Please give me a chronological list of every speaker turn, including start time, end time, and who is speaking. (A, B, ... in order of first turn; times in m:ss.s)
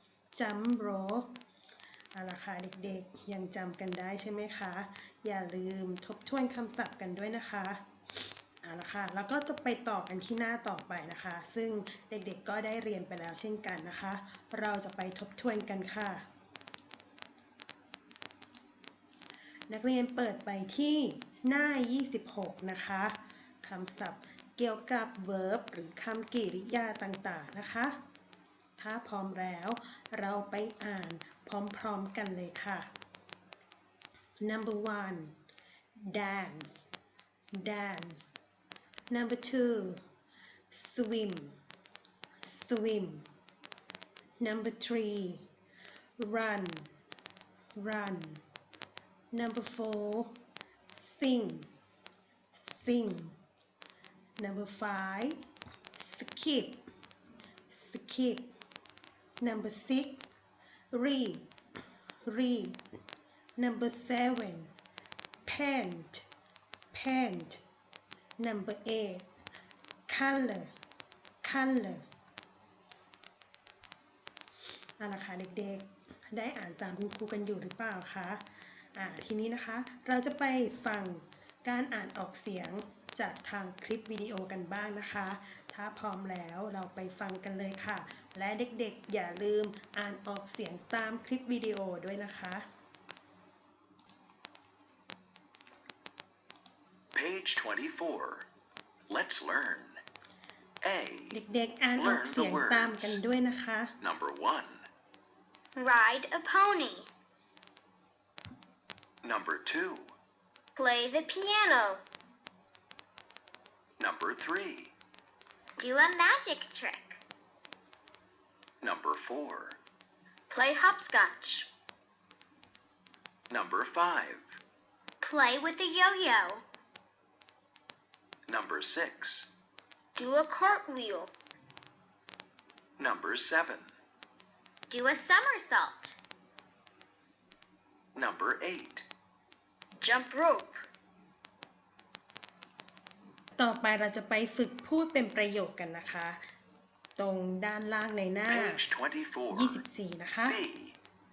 0:00.3-0:01.3 A
0:02.1-0:07.8 A
0:08.6-0:16.2 A
0:19.7-0:28.0 A
0:28.8-0:32.9 A
0:34.4-0:35.3 A
0:36.0-0:36.9 A
0:37.5-0:38.4 A
0:39.1-0:40.0 A
0:40.7-0:41.6 A
0:42.4-0:43.3 A
0:44.4-0:45.5 A
0:46.2-0:46.9 A
0:47.8-0:48.4 A
0:49.3-0:50.4 A
0:50.9-0:51.7 A
0:52.5-0:53.4 A
0:54.4-0:55.4 A
0:56.0-0:56.8 A
0:57.7-0:58.5 A
0:59.4-1:00.3 A
1:00.9-1:01.5 A
1:02.2-1:02.8 A
1:03.6-1:04.7 A
1:05.4-1:06.3 A
1:06.9-1:07.6 A
1:08.4-1:09.3 A
1:10.1-1:10.7 A
1:11.4-1:12.1 A
1:15.0-1:18.4 A
1:19.0-1:32.6 A
1:37.1-1:38.5 B
1:39.1-1:40.0 B
1:40.8-1:41.3 B
1:41.3-1:43.9 A
1:42.0-1:43.2 B
1:44.0-1:44.8 B
1:45.8-1:47.1 C
1:49.2-1:50.1 B
1:50.8-1:52.0 C
1:54.0-1:54.9 B
1:55.8-1:57.2 C
1:58.8-1:59.8 B
2:00.5-2:01.7 C
2:03.5-2:04.4 B
2:05.2-2:06.6 C
2:08.5-2:09.5 B
2:10.2-2:11.3 C
2:13.0-2:13.9 B
2:14.9-2:16.2 C
2:18.2-2:19.1 B
2:20.0-2:20.8 C
2:23.6-2:26.4 A
2:27.2-2:28.8 A
2:28.5-2:29.8 B
2:29.5-2:30.6 A
2:30.5-2:31.0 B